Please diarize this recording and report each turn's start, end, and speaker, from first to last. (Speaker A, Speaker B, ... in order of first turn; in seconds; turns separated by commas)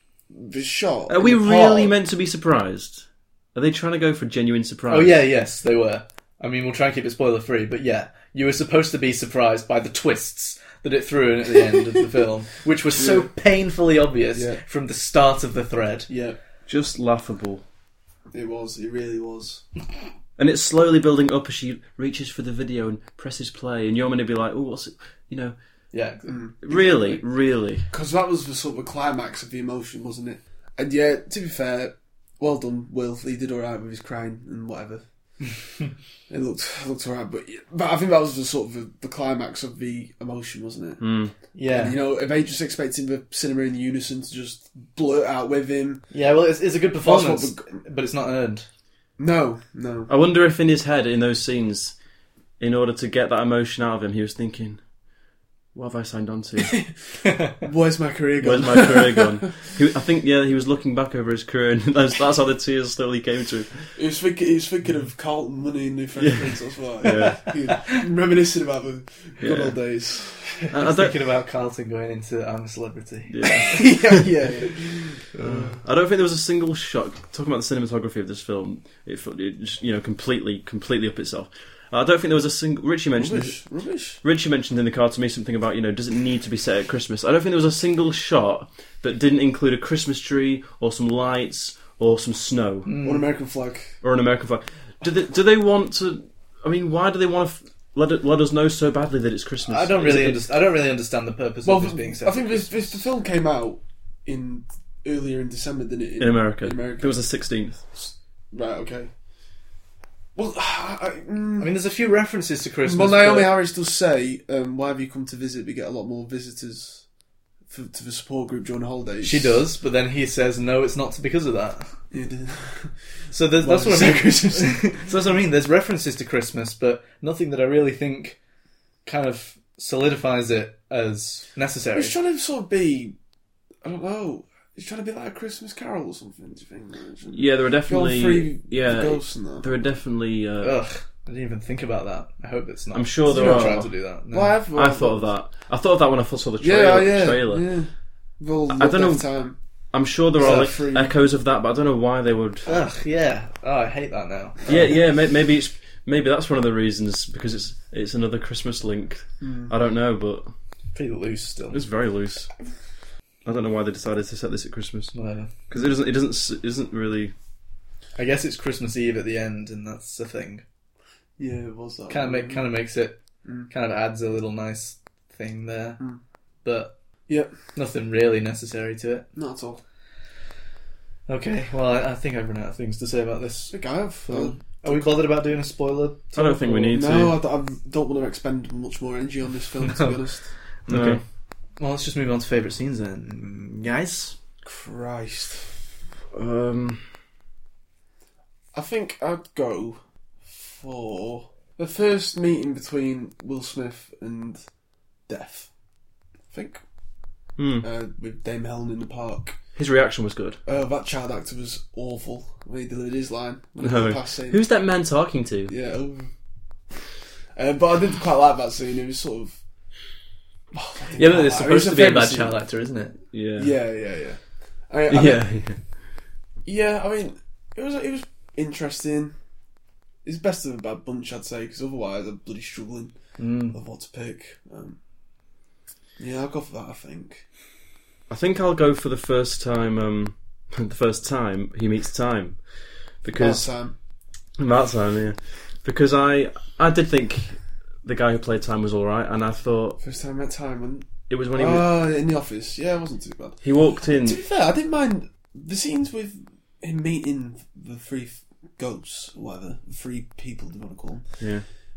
Speaker A: 0.3-1.9, Speaker B: 1.1-5.2, Speaker C: 4.9-16.1, Speaker A: 12.9-13.3, Speaker A: 14.3-14.6, Speaker A: 16.1-16.4, Speaker B: 16.7-17.6, Speaker A: 18.3-19.6, Speaker B: 20.4-25.6, Speaker C: 25.9-26.3, Speaker A: 26.2-27.2, Speaker B: 26.6-27.9, Speaker A: 27.9-35.0, Speaker A: 36.3-46.1, Speaker B: 41.0-41.3, Speaker C: 41.5-42.0, Speaker C: 46.1-48.7, Speaker A: 47.0-47.8, Speaker A: 49.2-50.1, Speaker B: 50.1-52.0, Speaker B: 52.6-54.8, Speaker B: 55.7-56.8, Speaker C: 57.2-57.5, Speaker A: 57.6-59.5, Speaker B: 58.4-63.9, Speaker A: 63.9-70.7, Speaker B: 66.2-67.4, Speaker B: 69.4-69.9, Speaker B: 70.7-71.2, Speaker C: 70.8-74.1, Speaker B: 73.3-74.1, Speaker A: 73.7-75.8, Speaker B: 75.4-83.6, Speaker A: 83.2-84.2, Speaker B: 84.2-92.9, Speaker C: 92.8-93.2, Speaker A: 93.0-94.0, Speaker B: 94.0-100.4, Speaker C: 99.6-103.0, Speaker A: 101.6-107.3, Speaker B: 106.2-107.8, Speaker A: 107.9-109.1, Speaker A: 110.3-111.8, Speaker C: 111.6-113.5, Speaker A: 112.8-117.0, Speaker A: 117.7-119.6, Speaker C: 119.2-121.9, Speaker A: 122.1-122.9, Speaker C: 123.3-128.4, Speaker A: 123.6-125.1, Speaker C: 129.0-132.2, Speaker A: 131.9-133.2, Speaker A: 133.8-139.7, Speaker B: 137.3-140.8, Speaker C: 140.6-144.5, Speaker B: 142.9-143.9, Speaker A: 143.3-145.3, Speaker B: 144.7-147.7, Speaker A: 146.6-151.1, Speaker B: 148.7-152.8, Speaker C: 150.4-150.7, Speaker C: 152.7-154.6, Speaker A: 154.6-154.9, Speaker B: 154.7-160.5, Speaker A: 159.4-159.7, Speaker C: 160.9-161.8, Speaker B: 161.7-162.5, Speaker B: 163.4-165.1, Speaker C: 165.1-165.5, Speaker B: 165.7-167.3, Speaker C: 168.2-170.6, Speaker A: 171.4-172.7, Speaker C: 172.1-176.0, Speaker A: 173.4-173.7, Speaker C: 176.6-176.9, Speaker A: 177.3-177.5, Speaker C: 177.7-179.3, Speaker A: 179.3-179.8, Speaker C: 181.3-187.0, Speaker A: 183.7-185.2, Speaker B: 186.3-187.4, Speaker A: 186.9-190.5, Speaker C: 189.8-190.1, Speaker C: 190.9-191.2, Speaker B: 190.9-191.2, Speaker C: 191.8-194.4, Speaker A: 194.6-195.8, Speaker B: 196.3-197.1, Speaker A: 198.7-204.6, Speaker A: 205.3-205.7, Speaker A: 206.5-206.8, Speaker B: 207.6-207.8, Speaker A: 207.8-209.6, Speaker B: 209.8-210.6, Speaker A: 210.7-214.6, Speaker B: 213.8-215.7, Speaker A: 215.7-216.3, Speaker A: 217.6-219.6, Speaker A: 220.7-222.6, Speaker C: 221.2-223.2, Speaker B: 223.3-223.7, Speaker A: 223.6-225.5, Speaker B: 225.1-225.8, Speaker A: 226.6-229.3, Speaker A: 230.2-235.0, Speaker C: 233.4-233.8, Speaker A: 236.2-237.4, Speaker B: 238.3-243.7, Speaker A: 243.3-243.9, Speaker B: 244.6-250.0, Speaker A: 250.0-261.5, Speaker B: 251.3-251.9, Speaker B: 253.6-254.4, Speaker B: 261.4-261.6